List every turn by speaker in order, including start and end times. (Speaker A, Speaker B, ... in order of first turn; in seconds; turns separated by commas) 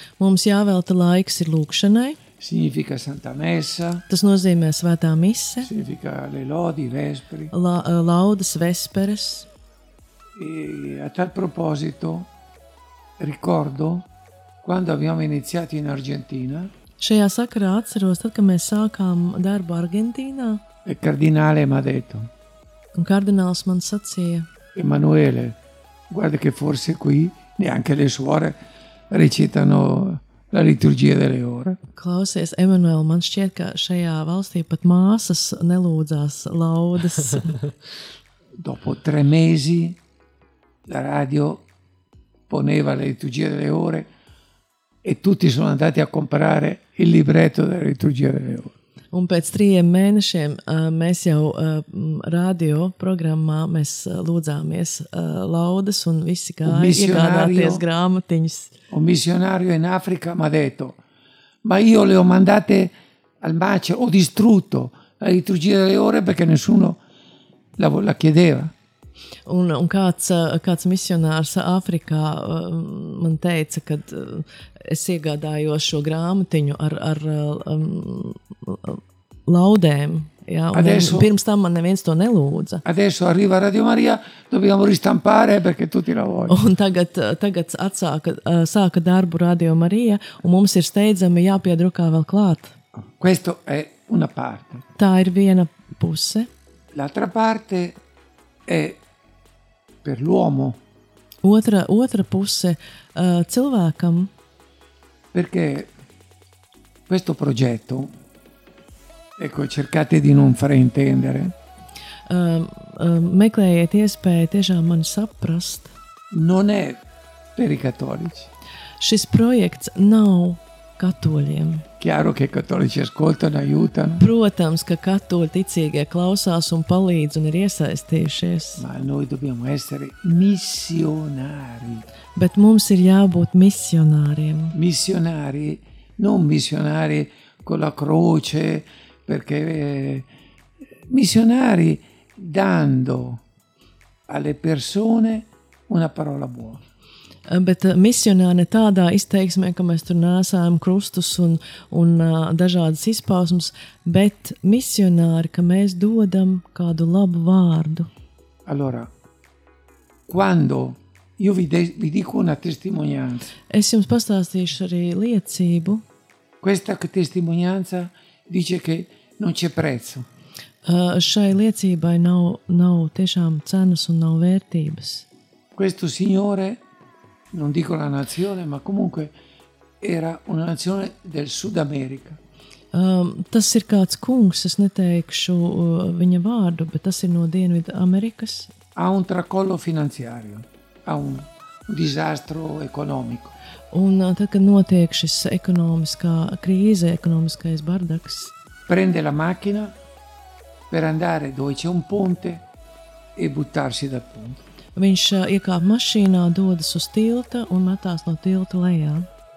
Speaker A: 0.2-2.2, Speaker B: 2.4-4.0, Speaker A: 4.1-5.7, Speaker B: 5.6-7.5, Speaker A: 7.5-9.5, Speaker B: 10.3-12.3, Speaker B: 13.2-14.1, Speaker B: 14.6-16.7, Speaker A: 17.0-20.6, Speaker B: 20.8-22.3, Speaker A: 22.9-24.5, Speaker B: 24.7-25.6, Speaker B: 26.1-28.6, Speaker B: 29.1-31.8, Speaker A: 31.9-37.6, Speaker B: 38.6-40.0, Speaker B: 40.9-41.6, Speaker B: 42.5-44.1, Speaker B: 45.0-48.7, Speaker A: 49.1-58.7, Speaker B: 56.6-57.8, Speaker B: 58.9-61.0, Speaker B: 61.6-67.0, Speaker B: 67.8-68.7, Speaker A: 69.5-82.8, Speaker B: 80.7-81.3, Speaker B: 82.8-86.6, Speaker A: 86.5-92.7, Speaker B: 93.2-94.8, Speaker A: 95.0-96.5, Speaker B: 96.9-98.0, Speaker B: 98.7-99.0, Speaker B: 100.0-100.8, Speaker A: 101.4-104.3, Speaker B: 105.3-105.9, Speaker B: 107.1-108.1, Speaker B: 109.4-111.5, Speaker A: 112.3-115.9, Speaker B: 116.3-117.0, Speaker B: 117.5-118.5, Speaker A: 119.0-121.8, Speaker B: 122.0-124.2, Speaker A: 124.2-128.8, Speaker B: 128.8-132.1, Speaker A: 132.3-134.7, Speaker B: 134.7-140.3, Speaker B: 141.1-143.4, Speaker B: 144.3-146.8, Speaker A: 147.5-158.1, Speaker B: 158.7-159.1, Speaker B: 160.3-163.5, Speaker A: 163.7-166.0, Speaker B: 166.6-170.3, Speaker A: 170.8-175.2, Speaker B: 175.7-176.8, Speaker B: 177.5-179.3, Speaker B: 180.0-182.4, Speaker A: 182.9-188.7, Speaker B: 188.9-193.5, Speaker A: 193.9-198.5, Speaker B: 198.9-199.9, Speaker B: 200.9-202.6, Speaker B: 203.3-204.6, Speaker A: 204.9-209.3